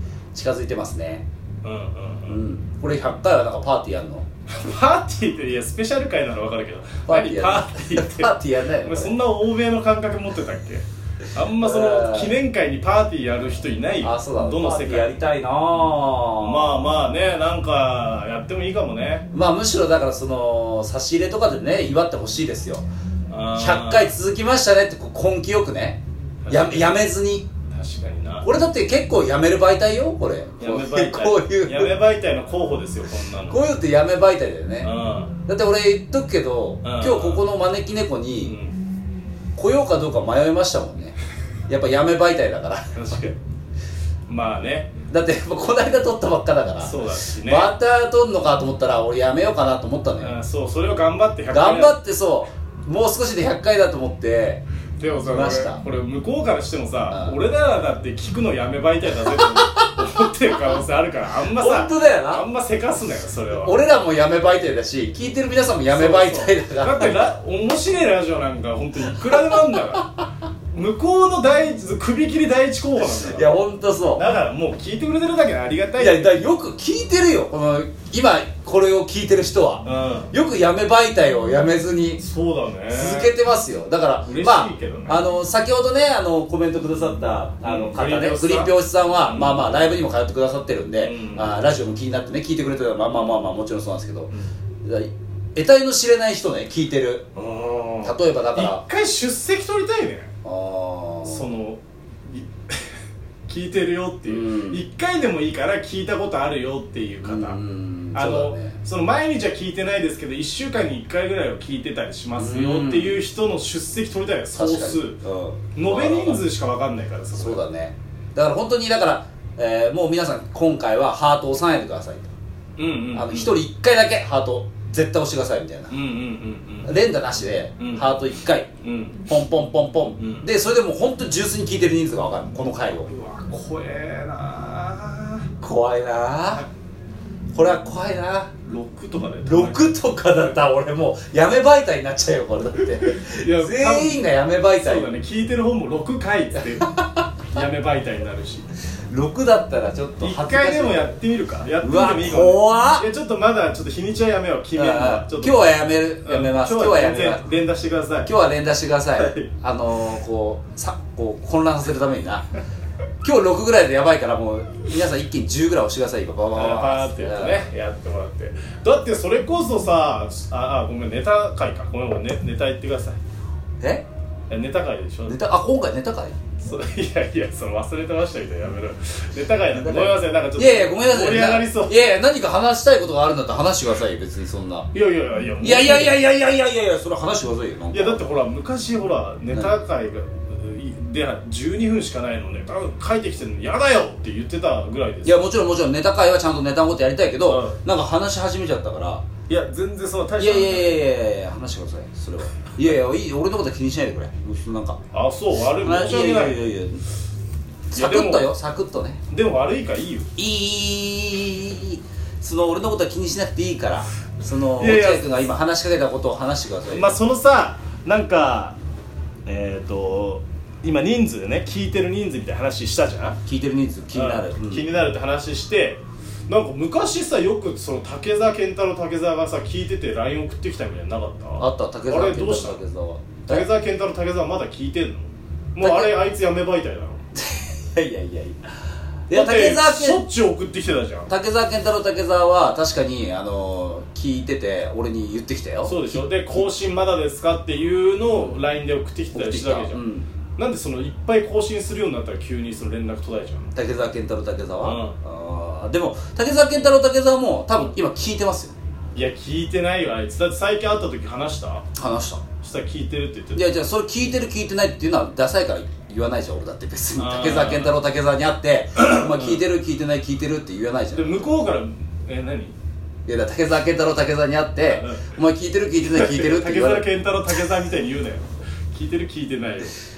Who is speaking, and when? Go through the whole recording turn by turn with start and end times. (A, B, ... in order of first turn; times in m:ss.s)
0:00.3-0:01.3 A
0:01.6-0:02.4 B
0:02.3-0:04.3 A
0:04.5-0:15.2 B
0:07.1-0:09.2 A
0:11.6-0:12.4 A
0:14.0-0:17.1 A
0:16.4-0:19.3 B
0:19.3-0:22.9 A
0:23.3-0:24.1 B
0:23.5-0:27.5 A
0:26.4-0:27.0 B
0:27.7-0:28.5 B
0:28.4-0:32.0 A
0:30.6-0:33.6 B
0:33.5-0:34.9 A
0:34.8-0:35.4 B
0:35.5-0:38.6 A
0:36.8-0:37.5 B
0:38.4-0:38.8 B
0:39.6-0:41.2 A
0:41.7-0:43.1 A
0:42.9-0:43.4 B
0:44.3-0:44.9 B
0:45.1-0:50.4 A
0:46.8-0:47.7 B
0:50.2-0:52.0 B
0:51.5-0:55.8 A
0:55.0-1:03.7 B
0:57.1-0:57.4 A
0:59.3-1:00.4 A
1:01.5-1:02.4 A
1:03.5-1:07.3 A
1:05.9-1:10.1 B
1:10.7-1:13.5 B
1:13.2-1:14.3 A
1:14.2-1:16.4 B
1:16.0-1:22.2 A
1:19.8-1:20.3 B
1:22.2-1:23.3 B
1:22.9-1:34.3 A
1:24.2-1:25.2 B
1:27.6-1:28.7 B
1:29.2-1:29.7 B
1:31.0-1:31.6 B
1:34.8-1:37.3 A
1:37.4-1:40.3 B
1:38.0-1:38.8 A
1:40.4-1:41.5 A
1:41.2-1:42.8 B
1:43.5-1:47.6 B
1:44.3-1:44.8 A
1:47.2-1:48.8 A
1:48.1-1:55.2 B
1:52.4-1:53.2 A
1:54.5-1:56.4 A
1:55.8-1:57.6 B
1:57.3-2:02.3 A
2:02.8-2:03.5 B
2:03.1-2:06.0 A
2:05.9-2:07.0 B
2:06.8-2:08.7 A
2:07.8-2:08.1 B
2:08.8-2:09.3 B
2:09.3-2:13.1 A
2:10.2-2:10.5 B
2:13.0-2:15.5 B
2:15.6-2:16.7 A
2:17.5-2:18.5 A
2:18.6-2:19.9 B
2:19.4-2:25.1 A
2:23.1-2:24.2 B
2:24.8-2:28.7 B
2:26.9-2:27.3 A
2:29.1-2:31.2 A
2:30.2-2:35.7 B
2:31.8-2:33.1 A
2:34.7-2:37.4 A
2:36.2-2:38.3 B
2:38.2-2:42.5 A
2:39.2-2:39.5 B
2:43.2-2:47.7 A
2:46.5-2:53.2 B
2:53.8-2:54.0 A
2:54.5-2:55.4 B
2:55.3-2:56.4 A
2:56.6-3:02.1 B
2:59.8-3:04.9 A
3:04.9-3:06.2 B
3:05.6-3:08.2 A
3:07.9-3:15.4 B
3:15.2-3:19.2 A
3:17.5-3:17.8 B
3:19.5-3:21.0 B
3:20.4-3:25.0 A
3:25.1-3:26.6 B
3:25.8-3:27.0 A
3:27.9-3:29.2 A
3:27.9-3:28.5 B
3:29.3-3:30.3 B
3:30.4-3:37.2 A
3:34.8-3:35.3 B
3:36.9-3:38.8 B
3:39.5-3:43.4 B
3:43.5-3:44.9 A
3:44.1-3:52.8 B
3:51.6-3:53.7 A
3:53.5-3:57.2 B
3:55.8-3:56.2 A
3:57.4-3:58.7 A
3:59.3-4:00.3 A
3:59.3-4:01.3 B
4:01.3-4:06.7 A
4:05.8-4:10.0 B
4:09.3-4:10.3 A
4:10.6-4:13.7 B
4:13.8-4:18.8 A
4:14.8-4:15.2 B
4:19.1-4:21.9 B
4:22.0-4:22.4 A
4:22.5-4:23.6 B
4:23.6-4:31.5 A
4:27.2-4:28.0 B
4:29.0-4:29.6 B
4:31.1-4:32.7 B
4:33.3-4:37.1 A
4:34.9-4:35.3 B
4:36.1-4:40.0 B